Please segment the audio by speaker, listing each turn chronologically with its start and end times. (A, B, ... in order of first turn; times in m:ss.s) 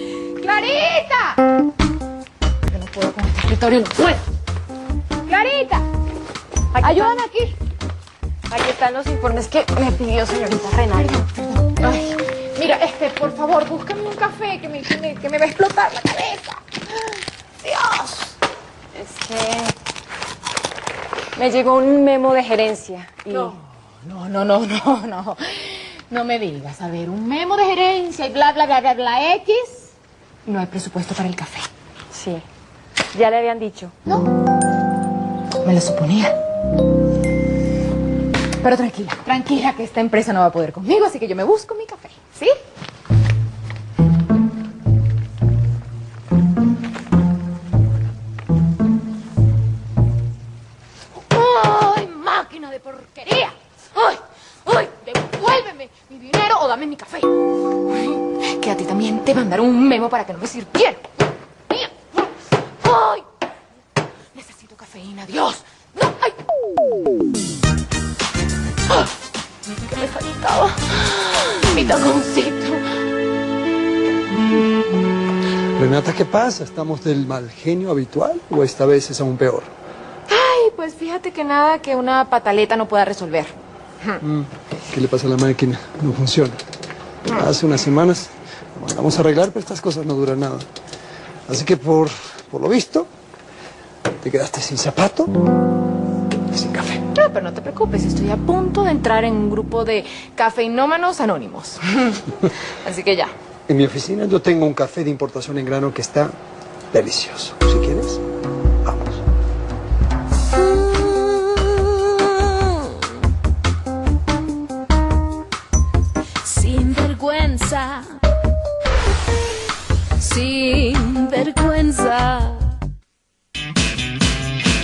0:00.4-0:01.4 A
0:02.7-0:04.2 A
0:05.3-0:05.8 A
0:06.8-0:07.3 B
0:06.8-0:07.5 A
0:08.5-0:11.3 B
0:11.7-0:16.6 A
0:17.6-0:18.3 A
0:19.0-0:19.7 B
0:21.4-0:23.5 B
0:23.3-0:29.9 A
0:30.5-0:31.7 A
0:32.1-0:32.4 B
0:33.1-0:33.9 B
0:35.6-0:36.4 A
0:38.6-0:42.5 A
0:51.3-0:57.3 A
0:57.9-1:01.0 A
1:01.7-1:02.3 A
1:02.8-1:03.2 A
1:04.4-1:06.4 A
1:10.0-1:10.8 A
1:11.7-1:12.8 A
1:15.8-1:19.7 C
1:20.3-1:23.5 A
1:24.2-1:26.6 C
1:27.3-1:30.7 C
1:31.5-1:33.1 C
1:34.2-1:35.3 C
1:36.5-1:37.0 C
1:37.2-1:42.2 A
1:42.8-1:43.3 A
1:43.7-1:46.4 C
1:46.9-1:48.2 C
1:48.8-1:49.2 C